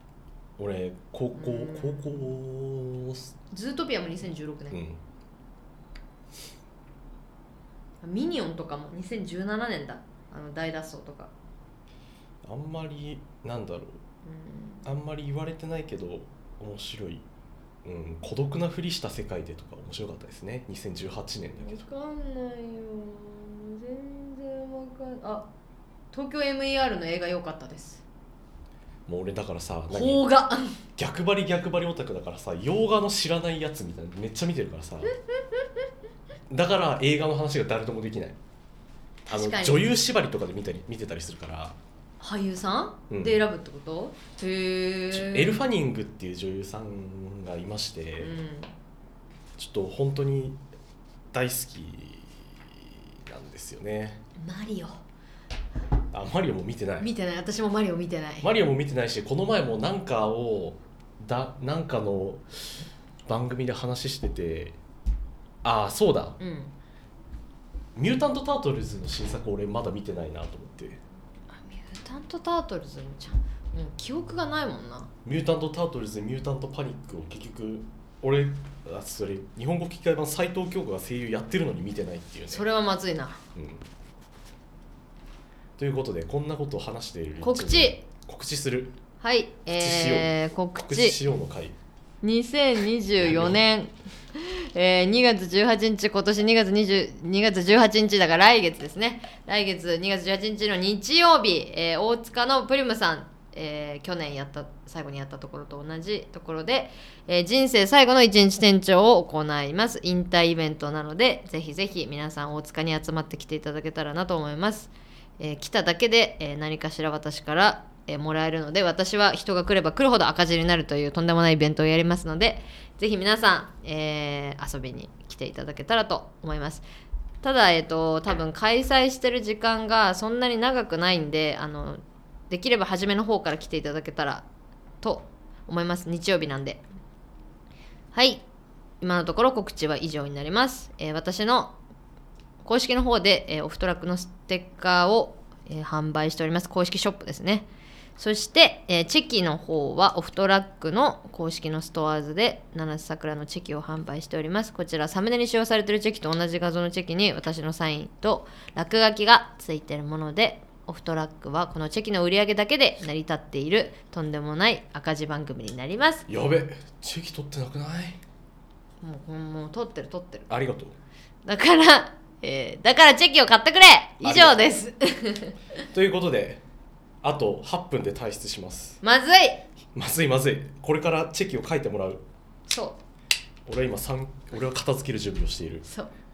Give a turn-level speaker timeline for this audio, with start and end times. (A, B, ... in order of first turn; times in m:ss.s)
0:00.6-0:03.3 A
0:01.3-0:02.3 B
0:03.5-0:04.8 B
0:04.7-0:05.0 A
0:08.0-0:11.3 B
0:12.4-0:14.0 A
0:14.2-0:14.9 B
0:14.8-0:17.3 A
0:17.8-0:21.8 A
0:21.6-0:25.5 B
0:26.1-0:28.0 B
0:29.1-0:30.2 A
0:29.9-0:30.8 B
0:31.0-0:35.1 A
0:35.3-0:35.9 B
0:36.5-0:38.4 A
0:39.3-0:39.9 B
0:39.3-0:41.8 A
0:42.2-0:45.6 B
0:43.1-0:43.4 A
0:45.1-0:48.3 A
0:48.2-0:48.7 B
0:49.6-0:50.6 A
0:51.3-0:54.2 A
0:54.4-0:55.0 B
0:56.1-0:57.1 A
0:57.0-0:58.5 B
0:58.4-1:02.7 A
1:03.3-1:04.8 A
1:05.6-1:06.4 A
1:06.4-1:06.7 B
1:08.0-1:11.0 A
1:11.5-1:15.1 B
1:15.2-1:22.7 A
1:22.5-1:23.4 B
1:23.6-1:23.9 A
1:25.8-1:29.0 A
1:27.4-1:28.0 B
1:29.2-1:31.2 B
1:29.7-1:31.8 A
1:32.2-2:06.8 B
1:33.2-1:33.6 A
2:07.4-2:14.5 B
2:15.0-2:16.8 B
2:18.1-2:18.4 B
2:19.0-2:21.8 B
2:22.6-2:27.7 B
2:28.2-2:46.3 B
2:46.3-2:48.2 A
2:49.0-2:50.5 B
2:50.5-2:51.0 A
2:51.4-2:55.6 B
2:54.2-2:54.7 A
2:55.9-2:56.6 A
2:57.2-2:59.0 A
2:59.0-2:59.6 B
3:00.0-3:02.2 A
3:02.7-3:03.0 B
3:03.7-3:05.9 A